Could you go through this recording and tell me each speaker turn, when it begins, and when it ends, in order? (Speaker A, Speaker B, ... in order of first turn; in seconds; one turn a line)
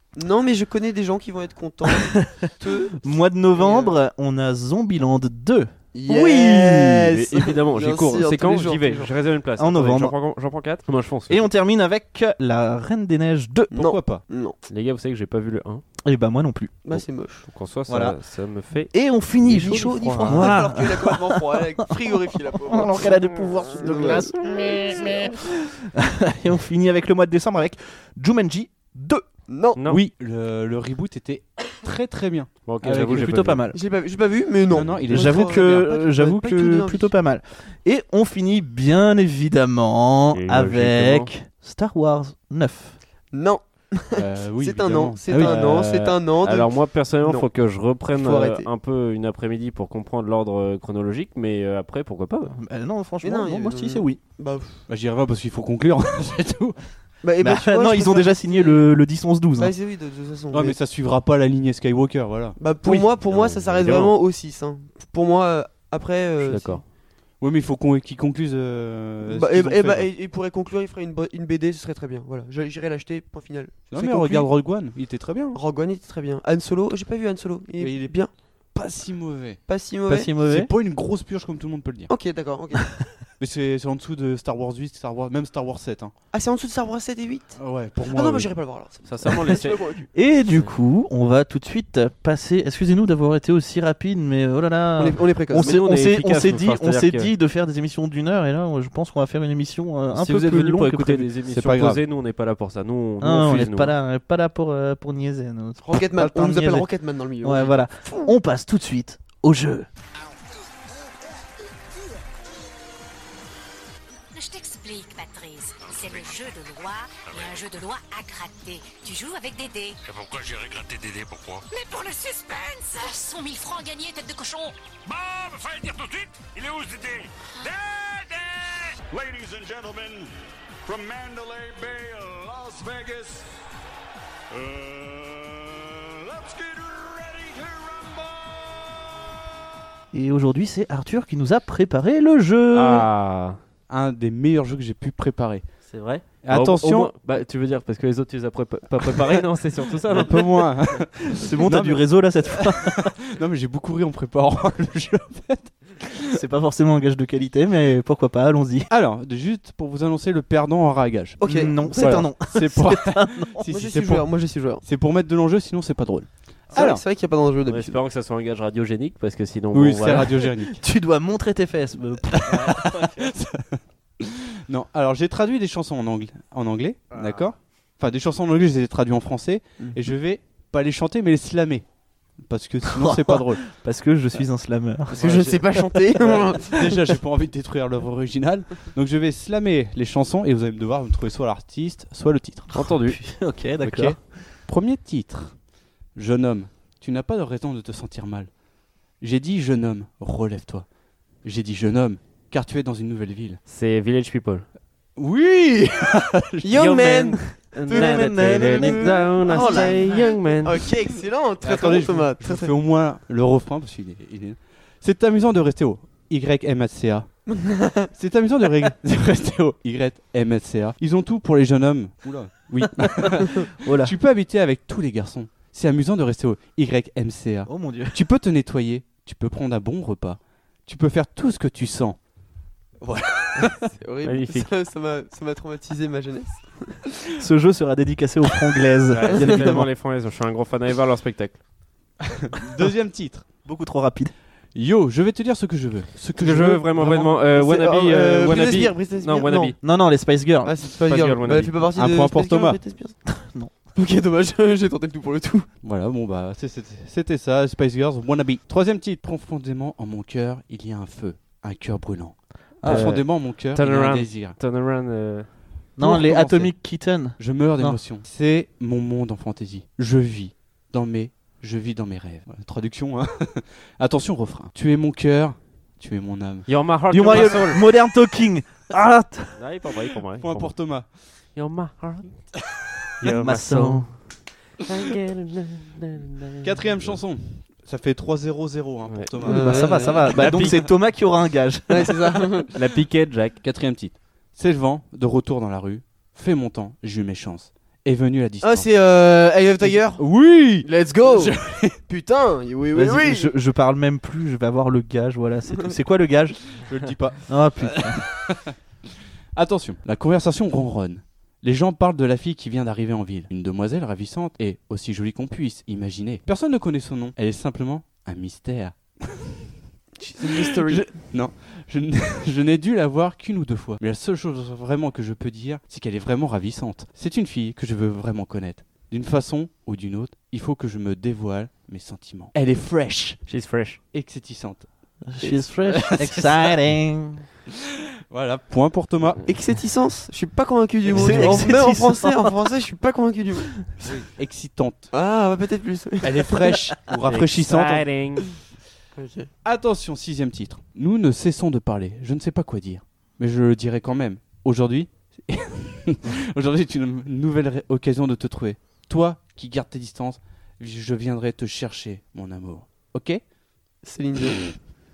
Speaker A: 0.2-3.0
Speaker B: 1.9-7.2
Speaker A: 3.5-4.0
Speaker A: 5.9-9.1
Speaker C: 7.0-11.5
Speaker B: 9.6-10.2
Speaker B: 11.3-13.7
Speaker A: 13.7-14.6
Speaker D: 13.8-14.2
Speaker C: 14.7-15.8
Speaker B: 16.0-16.8
Speaker A: 16.9-17.5
Speaker C: 16.9-18.9
Speaker B: 17.9-18.2
Speaker B: 18.9-29.3
Speaker C: 19.5-20.6
Speaker A: 19.5-25.1
Speaker A: 29.5-29.8
Speaker C: 29.8-30.0
Speaker D: 29.9-33.4
Speaker C: 32.7-33.6
Speaker B: 33.0-33.8
Speaker A: 33.7-37.1
Speaker D: 34.7-35.9
Speaker B: 35.1-43.0
Speaker C: 40.3-41.3
Speaker A: 43.3-46.7
Speaker D: 44.2-46.1
Speaker B: 45.3-45.6
Speaker C: 45.6-45.9
Speaker C: 46.4-52.6
Speaker A: 48.1-48.7
Speaker B: 52.5-54.2
Speaker A: 53.2-54.9
Speaker D: 54.9-56.8
Speaker A: 57.2-58.9
Speaker B: 57.4-59.7
Speaker A: 59.6-60.8
Speaker D: 60.5-63.0
Speaker A: 62.6-66.8
Speaker C: 62.9-64.2
Speaker C: 66.4-66.8
Speaker D: 67.4-70.1
Speaker A: 69.3-73.9
Speaker D: 73.9-75.6
Speaker B: 74.0-74.5
Speaker A: 75.5-78.3
Speaker D: 77.8-78.2
Speaker D: 78.7-79.6
Speaker A: 79.7-80.3
Speaker B: 80.1-80.7
Speaker D: 80.4-82.1
Speaker A: 82.1-83.0
Speaker D: 83.4-86.1
Speaker A: 86.3-90.1
Speaker D: 87.6-88.5
Speaker C: 89.1-89.8
Speaker B: 90.2-101.3
Speaker A: 95.0-95.8
Speaker C: 95.6-97.3
Speaker C: 100.1-104.0
Speaker D: 101.5-102.0
Speaker B: 103.2-106.9
Speaker A: 105.8-108.3
Speaker B: 107.4-109.9
Speaker E: 114.3-120.0
Speaker F: 115.8-116.5
Speaker F: 117.3-117.6
Speaker F: 120.0-121.7
Speaker E: 121.7-124.8
Speaker F: 125.0-130.3
Speaker F: 130.8-133.5
Speaker F: 134.5-138.7
Speaker B: 140.1-143.1
Speaker C: 142.7-143.6
Speaker D: 143.9-145.6
Speaker C: 145.9-150.4
Speaker D: 146.4-147.1
Speaker D: 150.1-152.1
Speaker B: 151.2-153.0
Speaker D: 152.6-156.4
Speaker B: 156.3-158.9
Speaker D: 158.9-164.3
Speaker A: 161.4-162.1
Speaker B: 161.4-163.7
Speaker A: 163.7-164.8
Speaker D: 164.8-167.0
Speaker A: 166.7-168.0
Speaker C: 167.7-170.3
Speaker D: 169.7-170.8
Speaker B: 170.3-173.2
Speaker D: 172.5-181.9
Speaker D: 182.4-183.7
Speaker B: 182.8-185.9
Speaker A: 185.1-187.2
Speaker D: 185.2-185.6
Speaker D: 186.2-192.7
Speaker C: 192.7-193.2
Speaker B: 193.0-194.2
Speaker D: 193.8-195.6
Speaker D: 196.2-198.5
Speaker D: 199.2-200.9
Speaker D: 201.4-203.6
Speaker C: 203.7-204.7
Speaker D: 205.2-206.7
Speaker A: 206.6-212.7
Speaker C: 206.7-210.8
Speaker B: 207.9-210.3
Speaker D: 211.6-217.5
Speaker A: 217.5-218.1
Speaker D: 218.1-232.2
Speaker B: 223.0-224.1
Speaker B: 227.7-228.2
Speaker D: 233.0-233.9
Speaker A: 233.7-237.0
Speaker C: 234.2-234.7
Speaker B: 237.4-239.9
Speaker C: 239.1-241.6
Speaker A: 239.3-239.8
Speaker D: 242.5-243.5
Speaker B: 243.6-244.3
Speaker D: 244.7-247.4
Speaker C: 246.4-249.8
Speaker A: 247.6-249.8
Speaker B: 249.8-250.8
Speaker A: 250.6-253.2
Speaker C: 251.1-251.8
Speaker D: 252.0-252.8
Speaker B: 253.3-253.7
Speaker A: 253.9-255.7
Speaker D: 255.8-264.6
Speaker B: 262.8-263.3
Speaker C: 262.9-265.5
Speaker B: 266.0-268.0
Speaker D: 266.0-266.7
Speaker C: 266.0-266.7
Speaker D: 267.4-276.7
Speaker C: 276.7-277.9
Speaker B: 277.1-279.6
Speaker D: 277.3-277.7
Speaker C: 279.6-280.7
Speaker D: 280.4-281.1
Speaker C: 281.6-282.4
Speaker C: 283.2-284.2
Speaker B: 283.3-284.1
Speaker C: 284.8-287.2
Speaker D: 286.6-290.1
Speaker A: 289.4-290.5
Speaker B: 289.4-292.4
Speaker C: 290.3-290.9
Speaker A: 291.9-292.7
Speaker C: 292.7-293.6
Speaker D: 293.6-298.9
Speaker A: 298.6-300.3
Speaker D: 299.8-302.0
Speaker A: 300.8-303.5
Speaker B: 302.9-306.6
Speaker D: 306.8-308.8
Speaker B: 307.5-308.3
Speaker D: 309.6-319.6
Speaker A: 320.2-321.2
Speaker D: 320.4-333.5
Speaker C: 333.5-334.0
Speaker D: 334.1-334.9
Speaker B: 335.3-337.4
Speaker D: 335.4-336.8
Speaker D: 338.3-339.4
Speaker A: 339.5-344.2
Speaker B: 341.1-342.5
Speaker D: 341.1-341.7
Speaker D: 344.0-345.1
Speaker A: 345.1-346.8
Speaker D: 346.2-348.1
Speaker C: 347.3-348.5
Speaker A: 349.1-349.5
Speaker D: 349.6-363.4
Speaker A: 364.0-364.8